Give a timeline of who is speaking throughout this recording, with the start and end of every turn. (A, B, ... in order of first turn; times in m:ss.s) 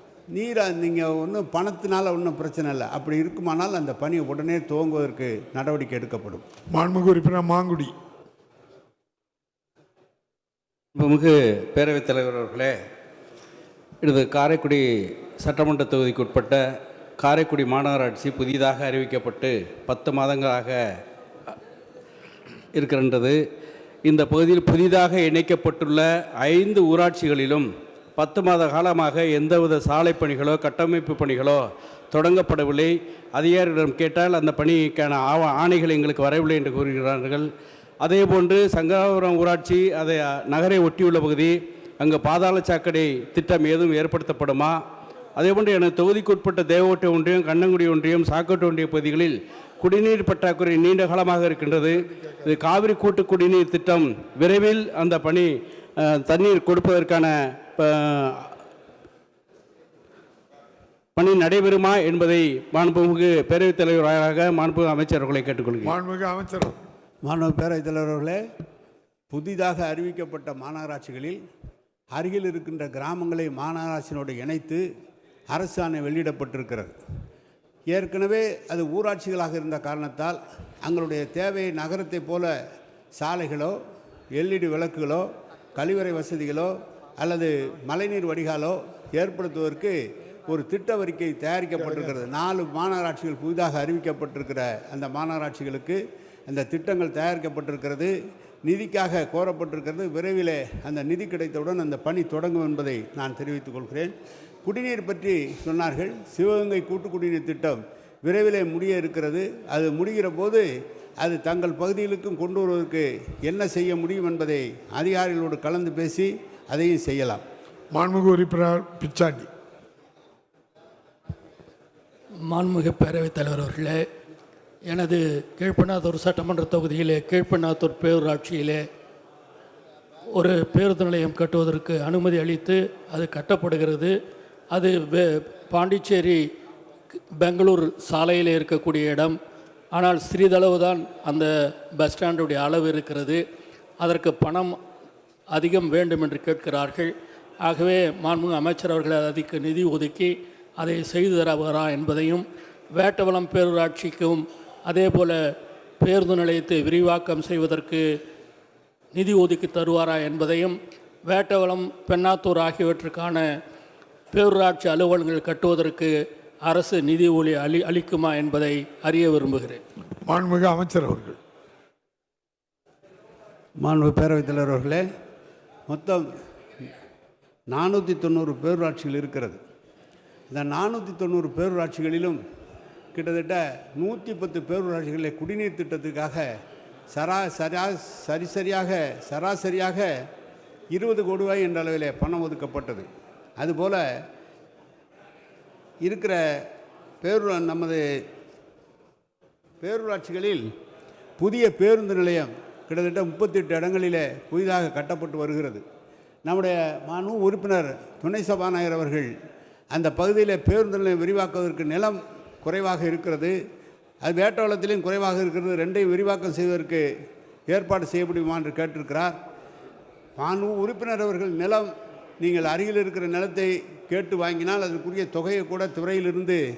0:00.3-0:06.4 A
0:06.7-0:07.9 B
0:10.9-0:12.8 C
0:14.0-0:21.5 C
0:22.7-0:23.4 C
0:24.0-0:44.8 C
0:45.4-0:58.6 C
1:01.2-1:06.0 C
1:05.8-1:06.7 B
1:07.2-1:08.4 A
1:09.3-1:11.4 A
1:12.1-1:14.8 A
1:15.5-1:16.9 A
1:17.9-1:22.5 A
1:23.2-1:23.8 A
1:24.3-1:38.1 A
1:38.6-1:44.1 A
1:44.6-1:50.6 A
1:51.2-1:57.4 A
1:57.9-1:59.5 B
2:02.5-2:04.0 D
2:04.9-2:08.8 D
2:10.3-2:14.1 D
2:14.7-2:16.4 D
2:17.4-2:19.4 D
2:19.9-2:23.4 D
2:24.0-2:24.8 D
2:25.5-2:35.4 D
2:36.0-2:38.0 D
2:39.1-2:40.8 D
2:41.3-2:43.5 D
2:44.3-2:46.1 D
2:46.6-2:49.8 D
2:50.2-2:51.4 B
2:53.8-2:55.0 A
2:55.9-2:56.2 A
2:57.7-2:59.6 A
3:00.5-3:02.4 A
3:03.1-3:06.4 A
3:07.1-3:10.1 A
3:10.9-3:13.0 A
3:13.6-3:14.0 A
3:16.0-3:16.7 A
3:17.2-3:18.0 A
3:19.8-3:20.6 A
3:21.4-3:25.8 A
3:26.4-3:29.3 A
3:29.9-3:33.5 A
3:34.2-3:37.0 A
3:37.7-3:39.4 A
3:40.4-3:46.6 A